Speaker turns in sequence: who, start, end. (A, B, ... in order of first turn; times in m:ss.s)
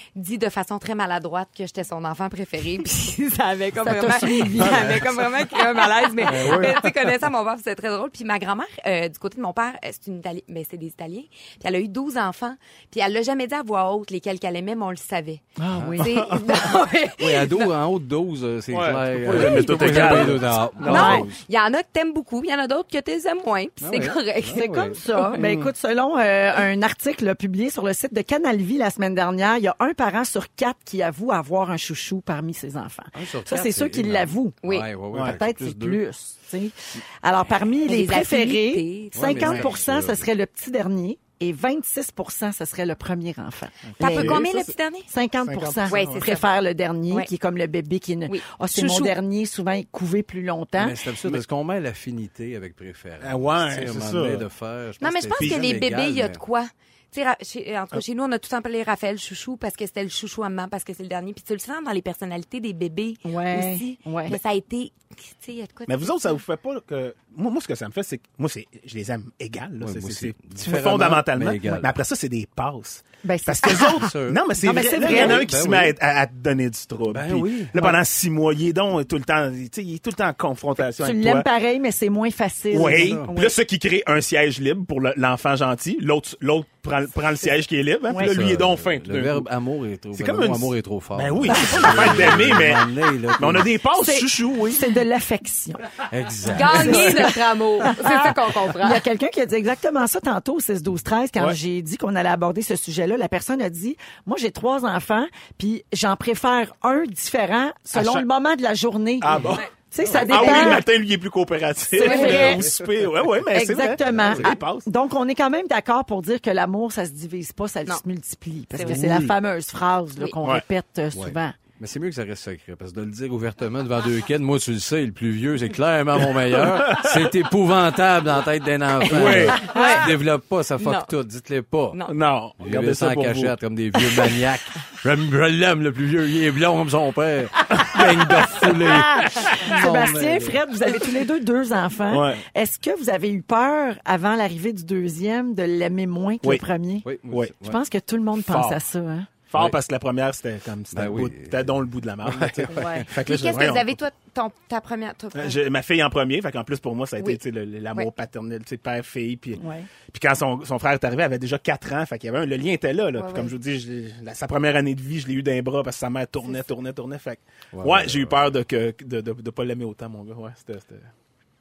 0:00.1-0:17.7 A
0:03.8-0:05.0 B
0:04.6-0:05.0 C
0:06.3-0:06.7 D
0:06.3-0:06.7 C
0:06.4-0:06.7 B
0:15.6-0:16.0 B
0:15.7-0:16.0 D
0:15.9-0:16.6 C
0:17.2-0:21.4 D
0:18.7-0:21.3 C
0:19.3-0:20.3 A
0:20.8-0:21.3 B
0:20.8-0:25.4 A
0:23.8-0:25.0 D
0:24.5-0:34.6 B
0:25.4-0:25.7 C
0:33.1-0:36.0 D
0:34.6-0:34.9 A
0:35.1-0:35.4 C
0:35.1-0:44.5 B
0:37.8-0:39.7 A
0:39.1-0:40.3 D
0:43.8-0:44.7 C
0:44.0-0:45.1 A
0:45.1-0:51.0 B
0:45.4-0:46.3 C
0:45.9-0:46.4 A
0:48.3-0:49.1 A
0:50.8-0:56.4 D
0:53.2-0:54.4 C
0:55.0-1:06.3 A
0:55.4-0:55.7 C
1:03.2-1:04.4 B
1:05.9-1:21.5 C
1:09.8-1:11.9 D
1:13.2-1:15.5 B
1:14.0-1:14.4 D
1:15.0-1:15.9 D
1:17.1-1:17.7 D
1:20.8-1:23.6 B
1:22.7-1:29.5 C
1:22.8-1:23.2 D
1:28.2-1:33.7 D
1:30.1-1:34.8 C
1:31.5-1:32.2 B
1:33.9-1:35.9 B
1:36.1-1:37.3 D
1:36.4-1:49.3 B
1:36.5-1:39.0 A
1:47.9-1:48.2 C
1:49.2-1:54.9 C
1:49.5-1:50.8 A
1:49.9-1:50.8 B
1:52.0-1:52.7 B
1:52.0-1:52.6 A
1:53.5-2:01.6 B
1:54.1-1:54.5 D
1:58.7-1:59.0 A
1:58.8-1:59.3 C
2:01.1-2:12.0 D
2:06.2-2:07.3 C
2:09.0-2:10.1 A
2:09.1-2:09.7 C
2:10.8-2:11.1 A
2:11.9-2:12.2 A
2:12.1-2:13.6 C
2:12.6-2:20.6 D
2:17.8-2:18.3 C
2:18.8-2:27.1 B
2:19.4-2:19.8 C
2:22.1-2:22.4 C
2:27.0-2:27.8 D
2:27.3-2:27.5 C
2:27.6-2:29.3 B
2:28.4-2:28.8 C
2:29.5-2:34.0 C
2:30.9-2:31.7 D
2:32.3-2:33.0 D
2:32.7-2:33.1 B
2:33.2-2:35.6 A
2:35.3-2:51.1 C
2:39.6-2:39.9 B
2:43.2-2:43.5 A
2:47.7-2:48.4 D